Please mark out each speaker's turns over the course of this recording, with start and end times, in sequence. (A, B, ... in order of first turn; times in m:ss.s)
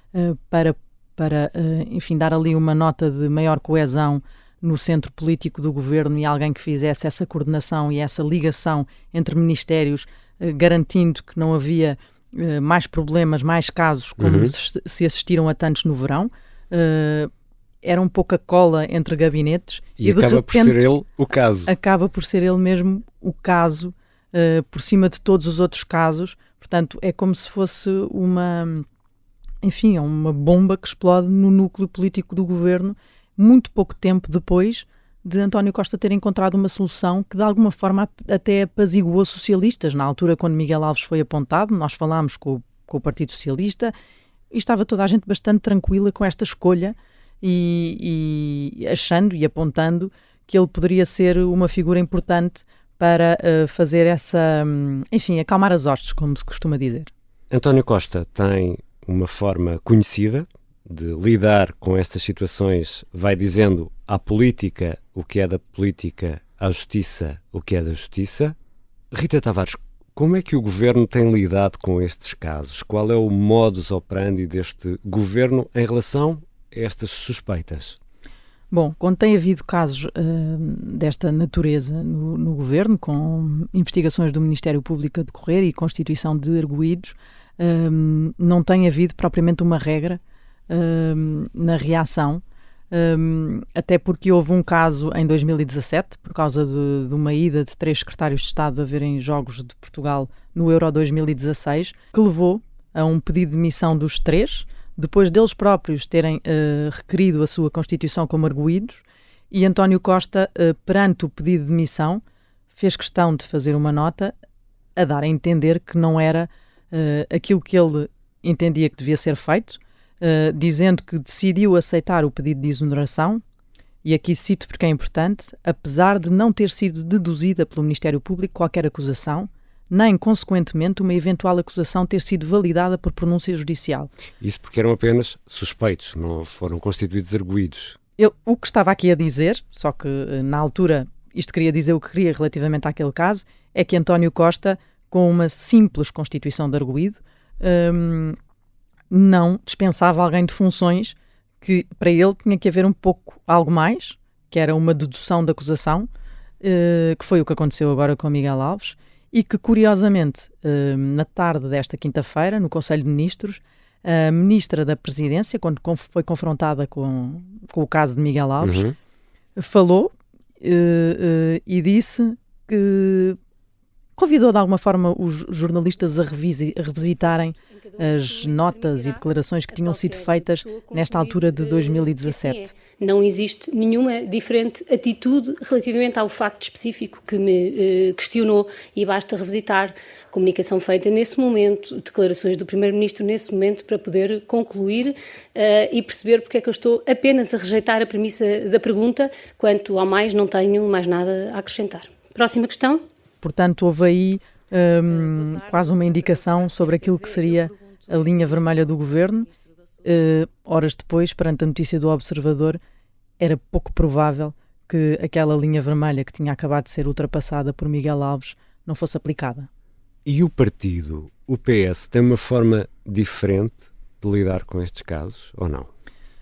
0:00.1-0:17.3 A
0:14.2-0:14.5 B
0:17.8-0:20.9 A
0:20.0-0:21.7 B
0:21.7-0:28.8 A
0:29.6-0:43.9 A
0:44.5-0:57.1 A
0:57.5-1:08.6 B
1:09.1-1:18.0 B
1:18.7-1:52.2 A
1:52.7-1:54.3 A
1:55.0-2:03.4 A
2:04.0-2:14.1 A
2:14.4-2:18.0 B
2:18.2-2:28.4 A
2:29.1-2:36.1 A
2:36.6-2:48.9 A
2:48.6-2:49.0 B
2:49.6-2:53.4 A
2:54.2-3:02.7 A
2:57.2-3:23.0 C
3:23.4-3:29.5 A
3:30.0-3:32.8 A
3:33.4-3:39.7 A
3:40.3-3:45.9 B